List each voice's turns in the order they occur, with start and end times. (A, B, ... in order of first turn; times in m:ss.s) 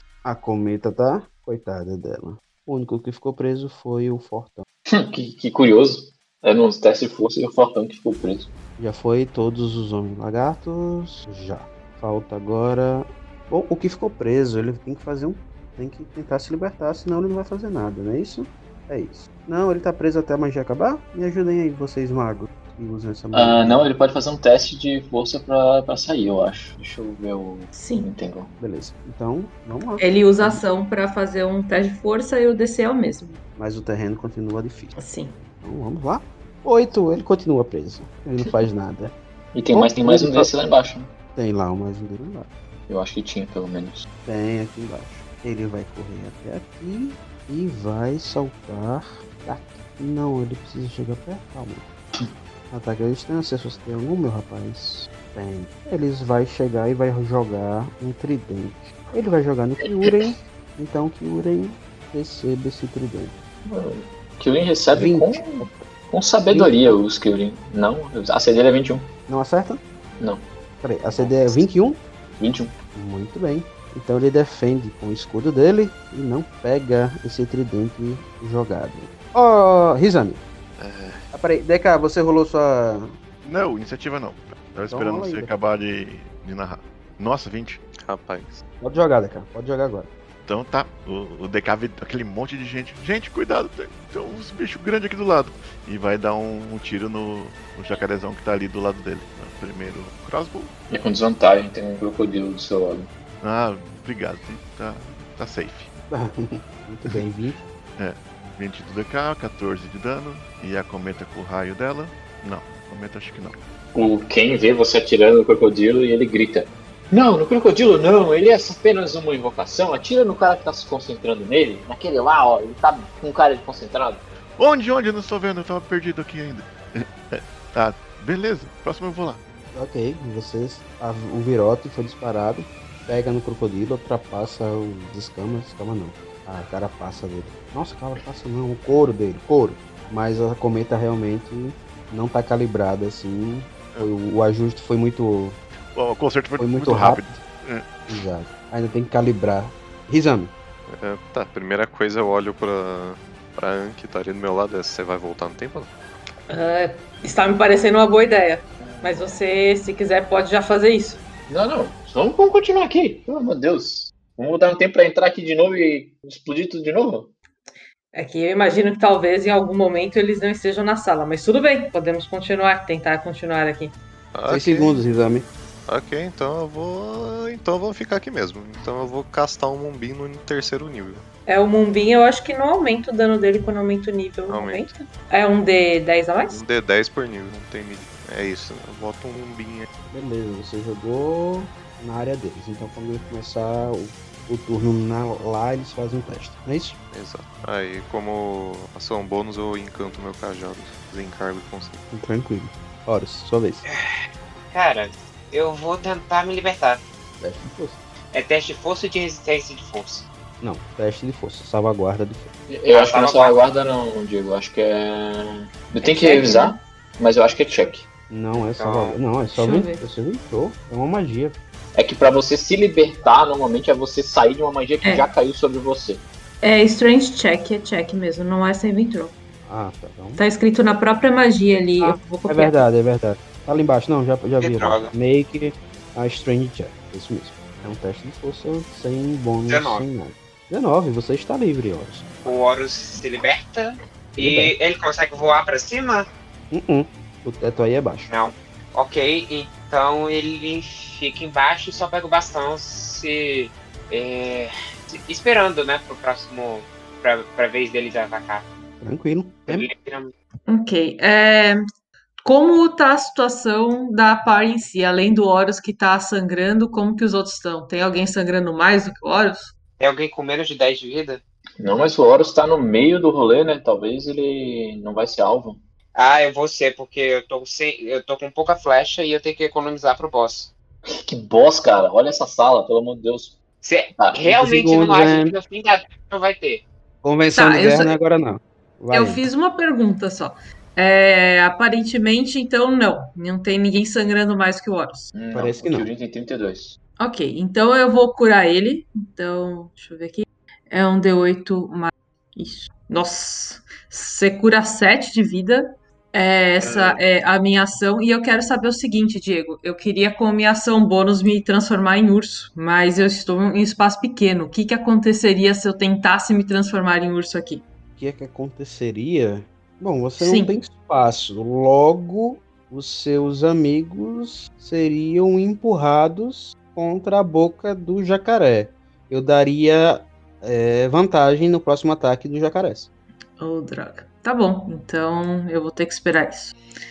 0:00.2-0:04.6 A
0:04.9-0:08.5 B
0:08.8-0:23.8 A
0:23.3-0:28.5 B
0:27.7-0:28.1 C
0:28.6-0:30.6 A
0:30.0-0:33.4 C
0:33.6-0:34.9 A
0:35.0-0:35.4 C
0:35.6-0:39.1 A
0:39.5-0:41.1 B
0:39.7-0:40.5 A
0:41.3-0:42.5 A
0:42.9-0:44.1 B
0:44.2-0:51.8 A
0:52.7-1:03.3 A
1:03.6-1:09.1 B
1:04.9-1:05.8 A
1:06.5-1:07.0 A
1:09.3-1:09.8 A
1:10.2-1:10.4 B
1:10.8-1:12.0 A
1:12.4-1:12.7 B
1:12.9-1:20.4 A
1:20.8-1:21.2 D
1:21.3-1:23.1 A
1:23.4-1:27.8 E
1:24.9-1:25.5 A
1:28.0-1:28.6 D
1:28.8-1:30.1 A
1:30.5-1:40.7 E
1:40.9-1:43.1 B
1:43.4-1:45.9 E
1:46.1-1:47.6 A
1:48.0-1:53.6 E
1:53.9-2:04.2 B
2:04.6-2:09.4 E
2:09.7-2:25.6 A
2:25.9-2:27.9 E
2:26.6-2:27.4 A
2:28.1-2:30.5 A
2:30.9-2:35.9 D
2:36.5-2:41.2 C
2:38.8-2:39.4 B
2:41.5-2:47.3 B
2:48.1-2:54.0 C
2:54.3-2:55.0 D
2:54.5-2:55.5 A
2:55.9-3:01.2 D
3:01.5-3:06.6 C
3:04.5-3:05.0 D
3:06.5-3:09.9 D
3:10.1-3:17.0 A
3:17.1-3:22.0 D
3:22.1-3:23.8 A
3:23.8-3:27.0 F
3:27.4-3:28.0 A
3:28.3-3:30.2 F
3:30.6-3:32.5 A
3:32.7-3:38.0 B
3:32.9-3:33.6 F
3:36.0-3:36.8 C
3:38.3-3:41.6 A
3:38.5-3:39.2 F
3:39.5-3:40.0 C
3:41.9-3:46.2 B
3:45.0-3:45.3 C
3:46.6-3:49.3 C
3:49.6-3:50.4 A
3:50.4-3:52.8 C
3:52.0-4:02.2 A
3:54.6-3:55.1 F
3:59.7-4:00.0 F
4:02.4-4:06.3 F
4:04.4-4:04.7 A
4:06.7-4:08.3 A
4:08.3-4:18.6 F
4:19.0-4:19.9 A
4:19.7-4:20.3 F
4:20.7-4:21.8 C
4:22.4-4:29.7 C
4:30.0-4:31.4 F
4:31.8-4:35.8 B
4:36.2-4:40.7 F
4:41.0-4:43.6 B
4:43.8-4:46.8 F
4:44.1-4:44.4 B
4:44.5-4:45.5 A
4:47.2-4:49.4 A
4:47.5-4:48.1 C
4:49.1-4:55.3 C
4:55.3-4:57.0 B
4:55.5-4:56.1 A
4:57.2-5:17.8 C
5:06.8-5:07.1 F
5:18.2-5:33.1 A
5:20.4-5:20.7 C
5:33.6-5:36.7 C